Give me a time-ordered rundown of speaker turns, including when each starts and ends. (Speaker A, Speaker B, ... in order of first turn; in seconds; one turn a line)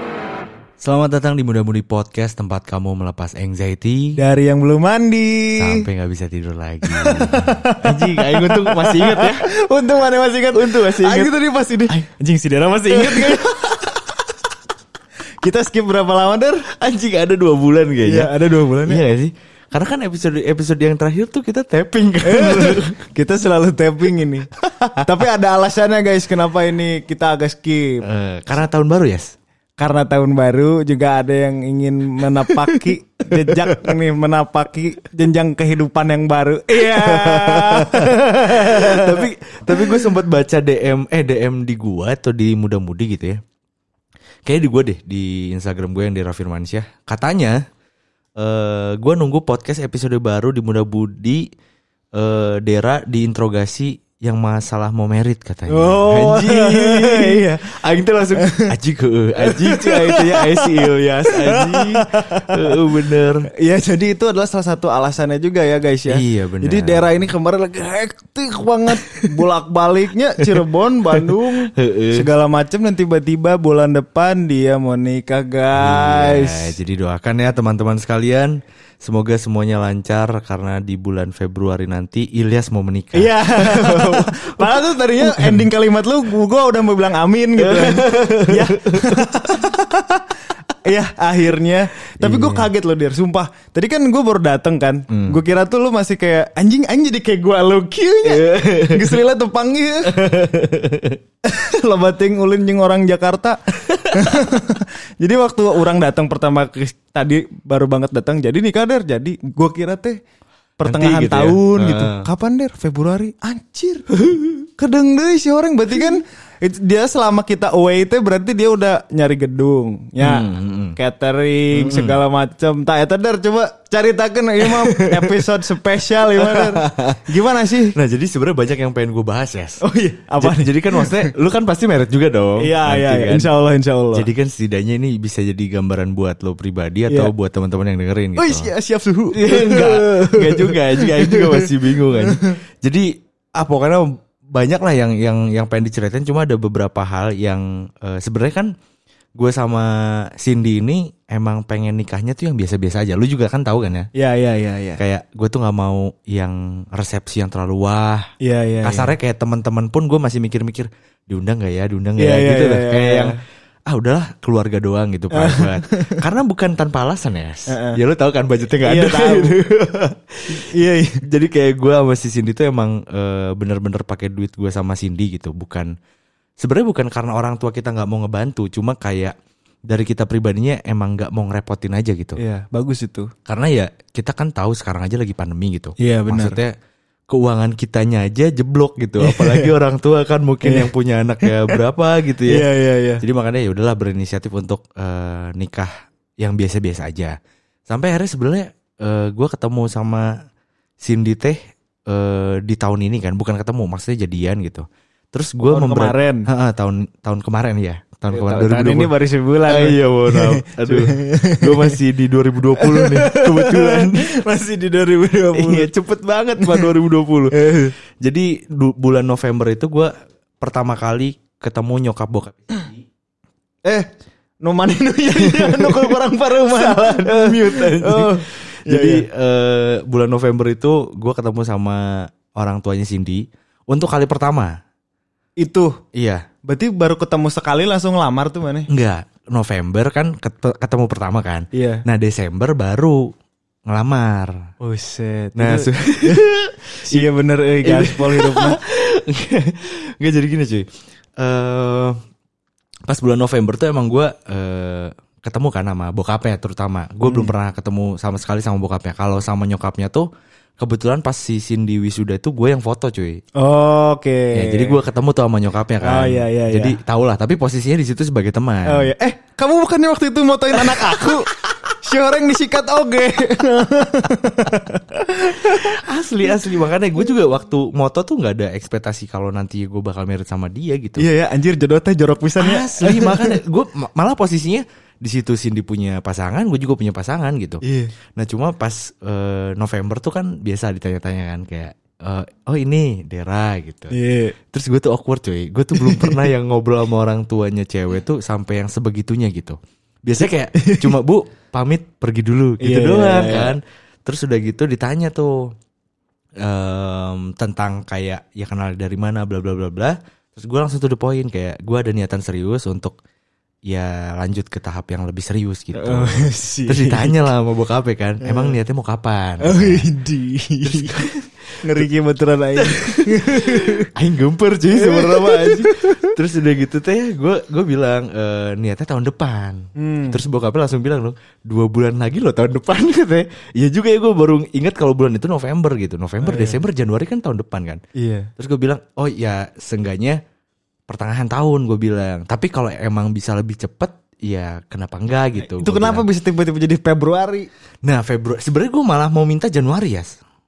Speaker A: 0.8-4.2
Speaker B: 4.2-5.9
Speaker A: 5.6-9.4
Speaker B: 6.8-13.6
Speaker A: 10.5-11.3
Speaker A: 11.9-12.2
Speaker A: 12.9-14.1
Speaker B: 15.4-16.7
Speaker A: 16.7-23.0
Speaker B: 18.0-19.0
Speaker B: 22.2-28.0
Speaker A: 28.0-29.3
Speaker B: 29.8-39.2
Speaker A: 32.2-34.0
Speaker A: 36.8-43.4
Speaker B: 39.8-40.0
Speaker A: 44.4-47.6
Speaker A: 48.4-51.4
Speaker A: 52.1-63.5
Speaker B: 55.7-57.6
Speaker B: 58.4-58.7
Speaker B: 59.4-62.8
Speaker B: 63.6-76.7
Speaker A: 66.1-67.2
Speaker A: 68.9-69.5
Speaker A: 70.4-72.3
Speaker A: 75.7-85.7
Speaker B: 83.1-100.3
Speaker A: 87.6-89.8
Speaker A: 92.2-92.7
Speaker A: 95.1-95.4
Speaker A: 98.2-99.2
Speaker A: 100.0-101.2
Speaker B: 101.4-110.2
Speaker A: 103.8-104.4
Speaker B: 110.8-127.9
Speaker A: 110.8-112.3
Speaker A: 114.2-114.5
Speaker A: 120.2-121.0
Speaker A: 121.7-122.2
Speaker A: 124.6-125.5
Speaker A: 126.3-129.8
Speaker B: 129.8-131.3
Speaker A: 130.4-133.5
Speaker B: 132.6-134.3
Speaker A: 134.1-138.7
Speaker B: 138.3-142.6
Speaker A: 139.3-148.7
Speaker A: 149.4-154.1
Speaker B: 154.1-155.0
Speaker A: 155.0-158.3
Speaker B: 158.4-159.1
Speaker A: 158.8-163.3
Speaker B: 162.2-163.4
Speaker A: 163.9-170.6
Speaker B: 165.3-166.2
Speaker B: 167.7-168.0
Speaker B: 168.8-169.6
Speaker B: 170.5-171.2
Speaker A: 171.2-175.9
Speaker A: 176.6-179.3
Speaker A: 179.9-182.4
Speaker B: 182.4-183.3
Speaker A: 183.5-186.7
Speaker B: 186.0-186.6
Speaker A: 187.3-192.7
Speaker B: 189.2-189.7
Speaker B: 190.6-190.9
Speaker B: 191.4-191.8
Speaker B: 192.4-193.2
Speaker A: 193.2-197.3
Speaker A: 197.9-200.3
Speaker A: 201.0-209.1
Speaker B: 205.7-206.5
Speaker B: 208.3-212.0
Speaker A: 209.7-214.3
Speaker B: 212.8-215.9
Speaker A: 215.5-223.0
Speaker B: 216.6-216.9
Speaker B: 217.5-217.9
Speaker B: 224.6-229.2
Speaker A: 225.3-234.8
Speaker B: 235.6-236.0
Speaker A: 236.1-236.5
Speaker B: 236.6-238.9
Speaker A: 238.9-243.3
Speaker B: 241.7-242.0
Speaker A: 243.9-244.7
Speaker B: 244.8-246.4
Speaker A: 245.6-247.3
Speaker B: 247.0-248.8
Speaker A: 247.8-250.9
Speaker A: 251.4-252.2
Speaker A: 253.1-260.3
Speaker B: 257.2-257.5
Speaker A: 260.8-263.4
Speaker B: 263.6-265.0
Speaker A: 264.5-269.1
Speaker B: 266.0-267.0
Speaker B: 268.9-275.9
Speaker A: 270.8-271.8
Speaker A: 275.5-281.2
Speaker B: 281.2-283.6
Speaker A: 282.6-287.8
Speaker B: 287.8-288.1
Speaker A: 288.4-305.7
Speaker B: 294.1-294.5
Speaker B: 295.9-296.5
Speaker B: 300.7-301.2
Speaker B: 302.8-303.8
Speaker A: 306.6-313.1
Speaker A: 313.9-320.1
Speaker B: 315.9-317.4
Speaker B: 318.4-318.8
Speaker B: 319.6-321.3
Speaker A: 320.8-322.0
Speaker B: 321.8-324.1
Speaker A: 322.8-338.0
Speaker B: 324.9-326.3
Speaker B: 329.9-330.4
Speaker B: 336.4-336.8
Speaker B: 338.1-338.5
Speaker A: 338.6-340.4
Speaker A: 341.1-346.2
Speaker B: 345.6-347.7
Speaker A: 348.0-350.4